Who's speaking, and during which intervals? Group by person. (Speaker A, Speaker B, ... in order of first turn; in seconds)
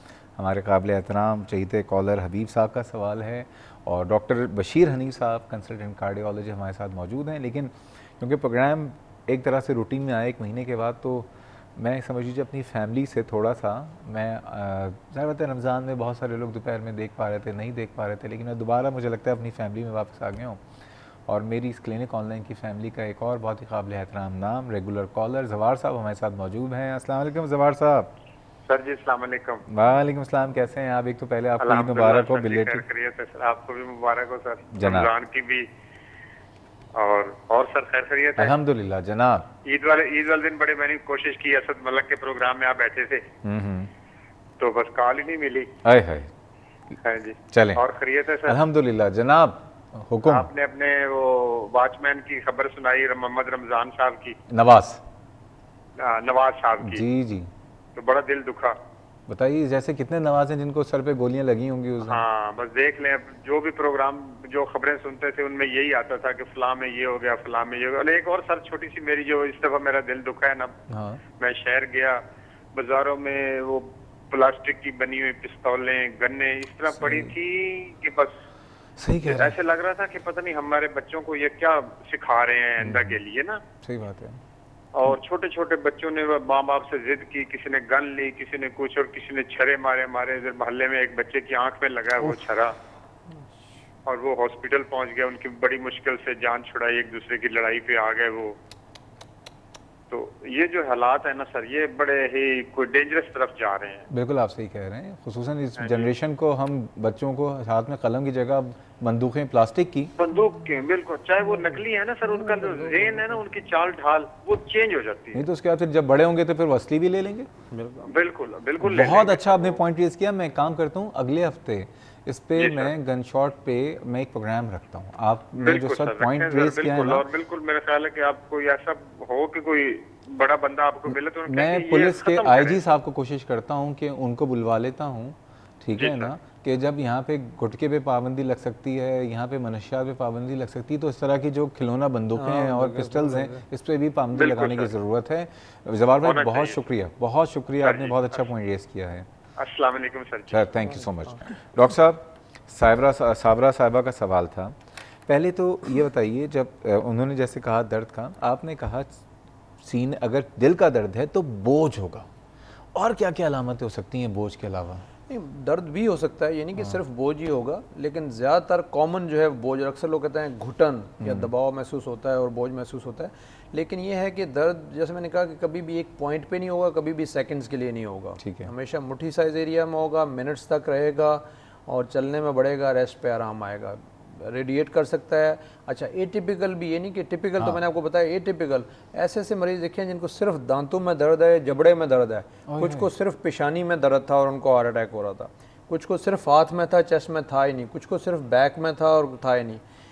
Speaker A: 0.4-20.6, 21.3-28.1, 29.7-32.8, 34.7-35.1, 38.4-39.5, 43.4-43.9, 45.8-46.3, 47.5-47.8, 48.5-50.5, 54.5-55.0, 56.8-57.5, 59.3-62.2, 70.9-71.2, 76.9-77.3, 79.0-79.5, 82.8-83.2, 83.8-84.4, 104.1-110.1, 115.3-117.5, 118.8-127.2, 131.1-149.3, 150.5-154.8, 155.3-159.2, 159.8-162.3, 162.9-165.1, 171.2-171.5, 178.4-178.7, 192.7-193.1
Speaker B: 28.6-29.6, 31.6-35.7, 36.9-38.5, 39.6-43.2, 44.6-45.7, 47.0-48.6, 50.3-54.4, 56.0-57.0, 58.0-58.8, 62.0-70.7, 71.4-72.2, 72.7-78.3, 79.2-83.6, 84.9-92.7, 94.0-98.5, 100.1-104.0, 105.8-106.1, 110.2-115.4, 118.0-119.8, 122.6-122.9, 125.6-132.8, 135.9-136.3, 144.3-144.9, 146.2-146.8, 147.8-148.4, 149.6-150.7
Speaker C: 142.3-143.6, 165.3-199.8